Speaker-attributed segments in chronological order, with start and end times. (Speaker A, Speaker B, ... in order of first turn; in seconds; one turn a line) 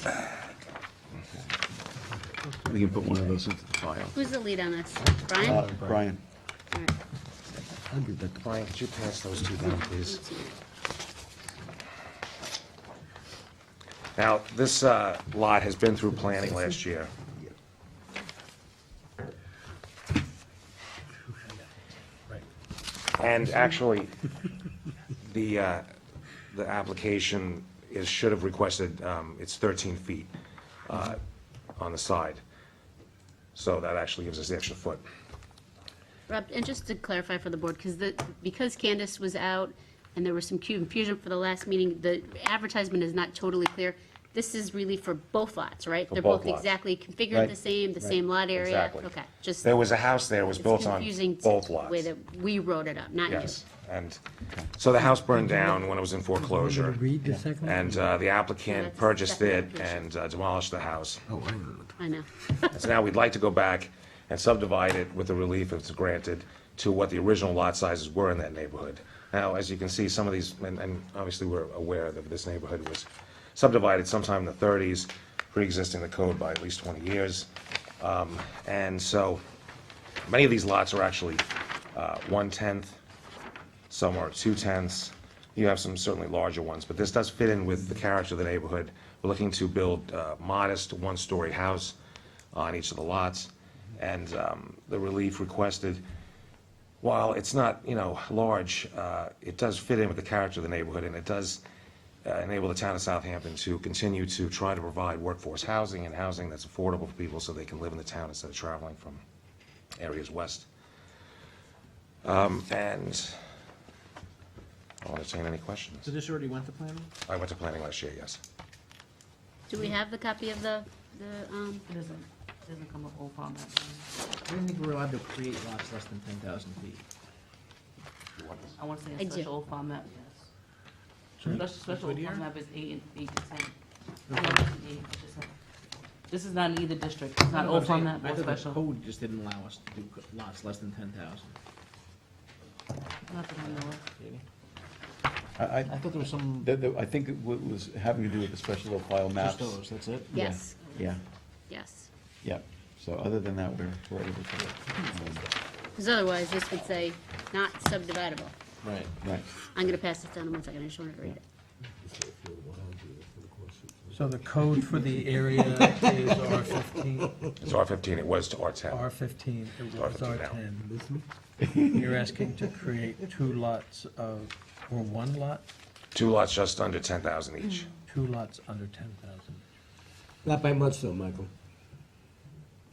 Speaker A: 1.3-1.5
Speaker A: 2.6-4.2
Speaker B: 4.2-5.7
Speaker A: 5.3-6.2
Speaker C: 7.9-8.3
Speaker D: 8.3-10.3
Speaker B: 9.6-10.6
Speaker D: 14.2-17.1
Speaker D: 23.2-24.1
Speaker D: 25.2-25.9
Speaker D: 26.5-30.3
Speaker D: 30.9-31.2
Speaker D: 31.8-32.4
Speaker D: 33.5-35.0
Speaker B: 36.3-49.8
Speaker D: 46.1-46.7
Speaker A: 47.3-48.2
Speaker D: 48.5-52.1
Speaker B: 50.6-53.6
Speaker D: 53.2-54.2
Speaker D: 54.7-57.1
Speaker C: 56.8-57.5
Speaker A: 57.2-57.5
Speaker D: 57.6-61.2
Speaker B: 58.7-60.1
Speaker C: 61.3-62.0
Speaker B: 62.0-62.7
Speaker D: 62.7-77.5
Speaker D: 78.0-79.4
Speaker D: 80.3-83.0
Speaker D: 83.9-92.0
Speaker D: 92.5-96.0
Speaker D: 97.0-101.6
Speaker D: 102.2-109.2
Speaker D: 110.0-110.7
Speaker D: 112.2-113.4
Speaker D: 115.0-116.1
Speaker E: 116.0-117.1
Speaker D: 117.3-118.4
Speaker B: 119.7-121.8
Speaker F: 121.9-124.1
Speaker E: 124.5-127.0
Speaker F: 128.7-130.5
Speaker B: 129.2-129.5
Speaker F: 131.4-133.7
Speaker E: 131.4-132.5
Speaker E: 134.3-134.7
Speaker F: 134.3-135.5
Speaker F: 136.3-138.8
Speaker E: 137.5-141.6
Speaker F: 143.3-144.1
Speaker E: 143.6-144.4
Speaker A: 145.6-149.8
Speaker E: 145.9-146.7
Speaker E: 149.4-150.3
Speaker A: 150.3-151.2
Speaker B: 150.3-151.0
Speaker B: 151.7-152.1
Speaker A: 152.4-155.5
Speaker B: 156.0-158.6
Speaker E: 158.8-159.1
Speaker B: 159.7-161.4
Speaker C: 162.0-167.3
Speaker G: 164.1-167.3
Speaker D: 167.6-169.1
Speaker G: 168.9-170.9
Speaker D: 169.9-170.6
Speaker C: 170.8-171.2
Speaker A: 171.6-172.1
Speaker G: 171.9-175.7
Speaker D: 176.1-177.9
Speaker G: 178.1-179.6
Speaker C: 180.4-181.5